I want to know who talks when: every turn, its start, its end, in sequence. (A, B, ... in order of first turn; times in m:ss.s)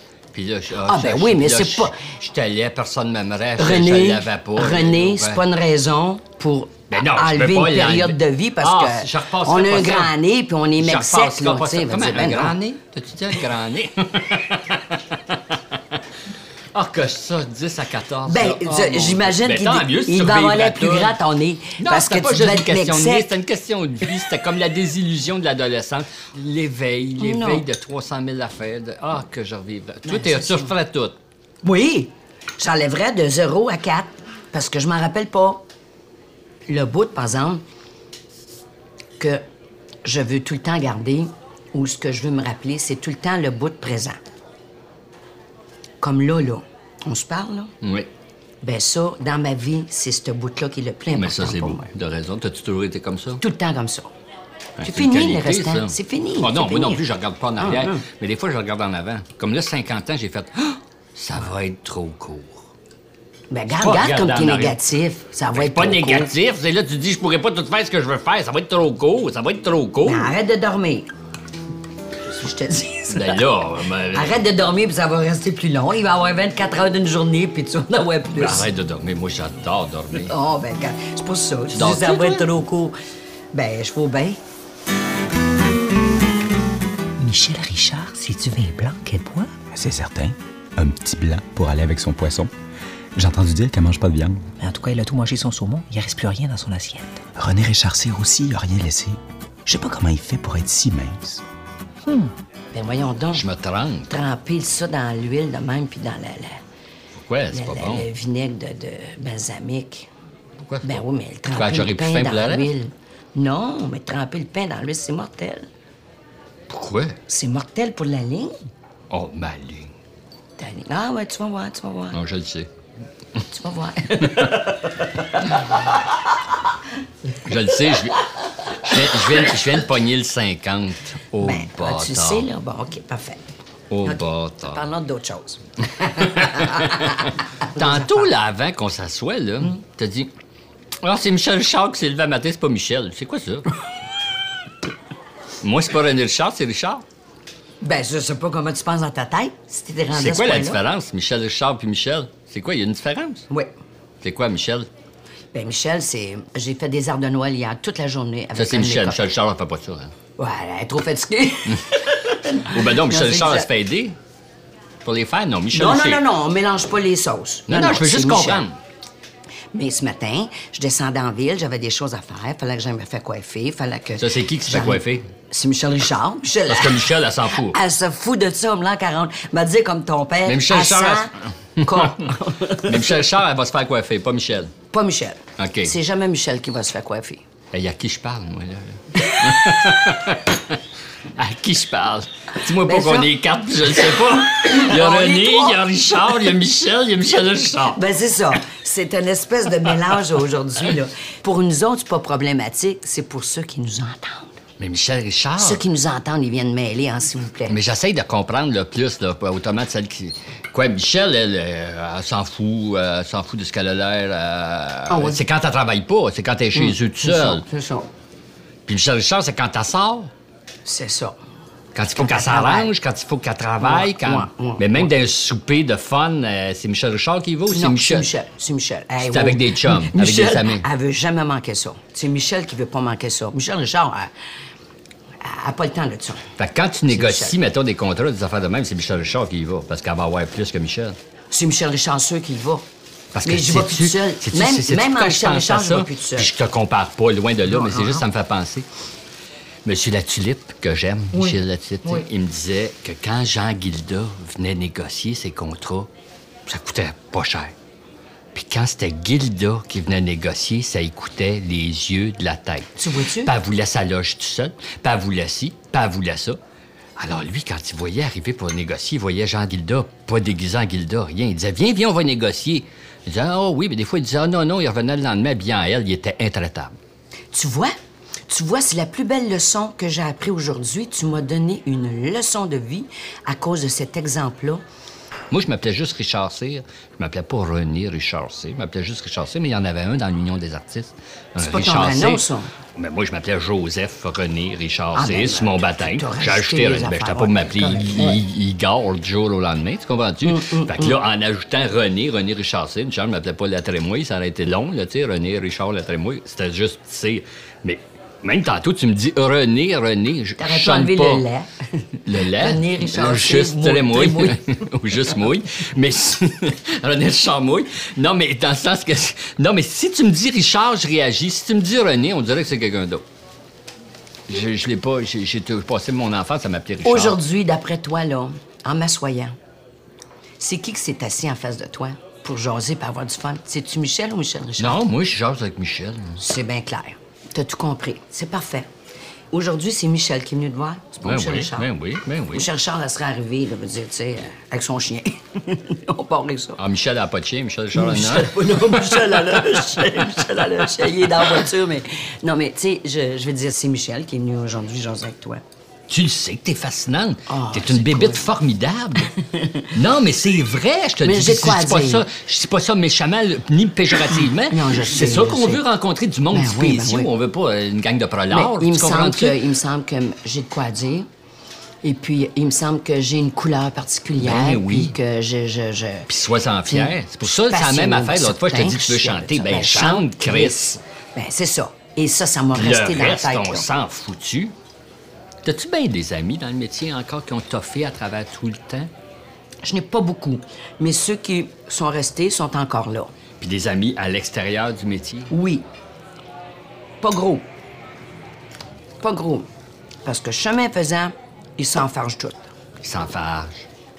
0:00.3-0:05.4 A
0:00.8-0:02.0 B
0:03.6-0:12.6 B
0:06.9-0:10.1 A
0:10.8-0:15.4 A
0:16.7-0:21.2 A
0:18.3-0:23.3 B
0:21.8-0:31.2 A
0:27.2-0:27.6 B
0:30.0-0:30.7 B
0:31.6-0:35.6 B
0:36.7-0:37.6 B
0:40.0-0:44.2 B
0:46.0-0:47.7 B
0:47.8-0:48.1 A
0:48.6-0:51.9 B
0:51.1-0:53.4 A
0:53.4-0:54.1 B
0:54.8-1:02.7 A
0:54.8-0:57.0 B
0:57.6-0:58.0 B
1:03.5-1:06.3 B
1:03.7-1:04.8 A
1:05.5-1:10.3 A
1:10.0-1:11.1 B
1:12.2-1:13.4 B
1:13.1-1:14.4 A
1:14.1-1:18.6 B
1:18.4-1:20.3 A
1:20.2-1:23.0 B
1:21.7-1:22.6 A
1:23.5-1:24.4 B
1:27.2-1:29.5 C
1:29.7-1:32.5 D
1:33.1-1:34.5 D
1:34.6-1:37.2 C
1:37.4-1:41.4 D
1:42.0-1:42.3 C
1:42.7-1:43.4 B
1:43.3-1:44.1 A
1:44.1-1:46.6 B
1:47.2-1:48.1 A
1:47.5-1:50.1 B
1:50.6-1:51.0 A
1:50.8-1:55.7 B
1:51.5-1:52.7 A
1:56.7-1:57.2 A
1:57.3-1:58.6 B
1:59.1-1:59.9 A
2:00.6-2:02.2 B
2:02.1-2:02.7 A
2:03.5-2:05.5 B
2:07.4-2:08.2 A
2:08.8-2:12.5 A
2:11.4-2:13.5 B
2:13.9-2:14.8 A
2:14.0-2:18.3 B
2:16.1-2:20.3 A
2:21.0-2:23.7 A
2:25.6-2:27.0 A
2:27.8-2:30.8 B
2:30.1-2:33.5 A
2:34.2-2:34.9 A
2:35.5-2:39.2 B
2:38.6-2:40.1 A
2:40.4-2:43.7 B
2:42.6-2:44.2 A
2:45.0-2:46.2 A
2:45.7-2:48.6 B
2:47.7-2:48.8 A
2:49.7-3:03.2 B
2:54.2-2:55.3 A
2:56.7-2:57.8 A
3:00.5-3:04.7 A
3:04.9-3:07.4 B
3:05.6-3:05.9 A
3:07.7-3:10.8 A
3:09.2-3:10.0 B
3:11.4-3:18.0 A
3:12.8-3:13.3 B
3:14.5-3:15.8 B
3:17.9-3:24.5 B
3:24.8-3:25.8 A
3:25.6-3:27.8 B
3:27.7-3:37.6 A
3:35.1-3:35.4 B
3:36.8-3:38.1 B
3:38.9-3:40.3 A
3:40.8-3:41.4 B
3:42.0-3:48.3 A
3:42.1-3:42.9 B
3:43.8-3:45.1 B
3:47.7-3:54.3 B
3:49.2-3:50.8 A
3:55.4-3:56.5 B
3:56.6-4:01.2 A
3:57.1-3:57.6 B
4:01.5-4:02.8 B
4:03.3-4:08.8 A
4:03.4-4:06.5 B
4:07.6-4:08.2 B
4:09.8-4:16.1 A
4:11.3-4:12.3 B
4:16.7-4:17.7 A
4:18.5-4:22.9 A
4:23.0-4:23.5 B
4:23.4-4:26.6 A
4:27.2-4:37.0 A
4:37.5-4:38.0 B
4:38.5-4:44.8 B
4:45.5-4:52.4 A
4:51.6-4:52.7 B
4:53.0-5:11.4 A
4:55.1-4:58.4 B
5:00.4-5:01.2 B
5:10.6-5:14.6 B
5:12.3-5:23.2 A
5:24.5-5:27.4 A
5:27.0-5:29.6 B
5:30.6-5:35.0 B
5:34.8-5:36.4 A
5:36.4-5:38.9 B
5:39.5-5:41.9 B
5:41.2-5:42.7 A
5:42.5-5:46.8 B
5:46.8-5:49.3 A
5:47.9-5:55.6 B
5:56.1-5:59.3 A
5:57.5-5:58.5 B
5:59.3-5:59.9 B
5:59.9-6:09.6 A
6:01.2-6:02.3 B
6:04.3-6:05.8 B
6:06.5-6:07.3 B
6:08.5-6:11.3 B
6:12.0-6:16.3 B
6:14.4-6:15.1 A
6:16.3-6:21.0 A
6:16.9-6:23.9 B
6:22.8-6:24.7 A
6:25.6-6:29.1 A
6:29.8-6:33.3 B
6:33.6-6:35.5 A
6:35.5-6:35.9 B
6:37.2-6:37.6 B
6:39.2-6:39.7 B
6:40.2-6:42.7 B
6:43.0-6:43.9 A